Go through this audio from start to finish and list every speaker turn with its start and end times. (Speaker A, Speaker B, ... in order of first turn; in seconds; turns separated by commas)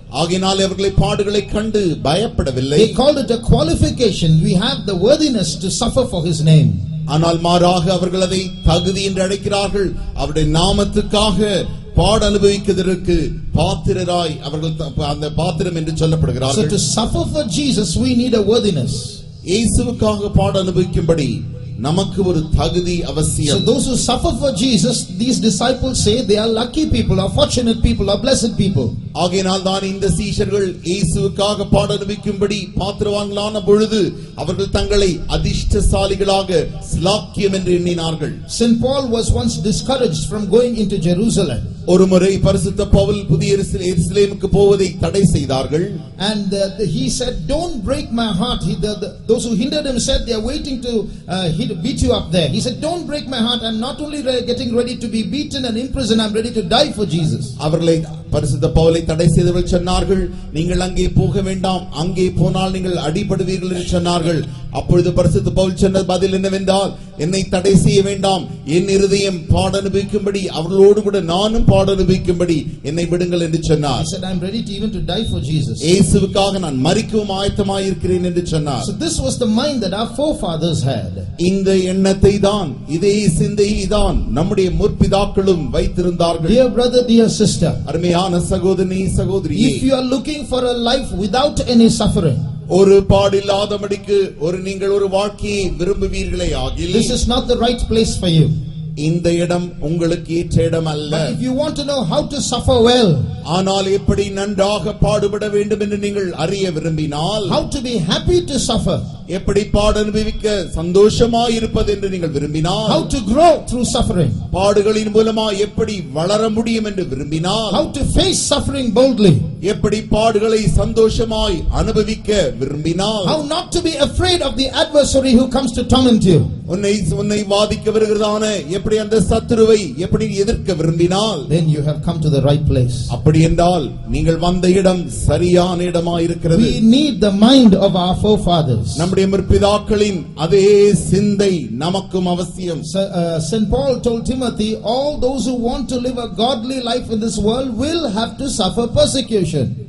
Speaker A: 0.1-3.0, Speaker B: 2.7-6.8, Speaker A: 7.1-16.7, Speaker B: 16.5-19.2, Speaker A: 19.4-23.7, Speaker B: 23.4-28.9, Speaker A: 29.1-38.4, Speaker B: 38.5-41.7, Speaker A: 41.9-46.0, Speaker B: 46.2-57.5, Speaker A: 57.6-74.1, Speaker B: 74.0-75.9, Speaker A: 75.8-78.9, Speaker B: 78.8-81.3, Speaker A: 81.4-86.6, Speaker B: 86.5-87.8, Speaker A: 87.8-89.8, Speaker B: 89.5-92.4, Speaker A: 92.7-97.2, Speaker B: 96.9-98.5, Speaker A: 99.0-101.4, Speaker B: 101.1-103.2, Speaker A: 103.4-107.6, Speaker B: 107.4-109.0, Speaker A: 109.3-113.1, Speaker B: 112.9-114.4, Speaker A: 114.5-117.8, Speaker B: 117.7-119.5, Speaker A: 119.6-123.4, Speaker B: 123.2-126.5, Speaker A: 126.7-131.5, Speaker B: 131.5-133.1, Speaker A: 133.1-136.8, Speaker B: 136.5-139.1, Speaker A: 138.9-142.8, Speaker B: 142.8-149.7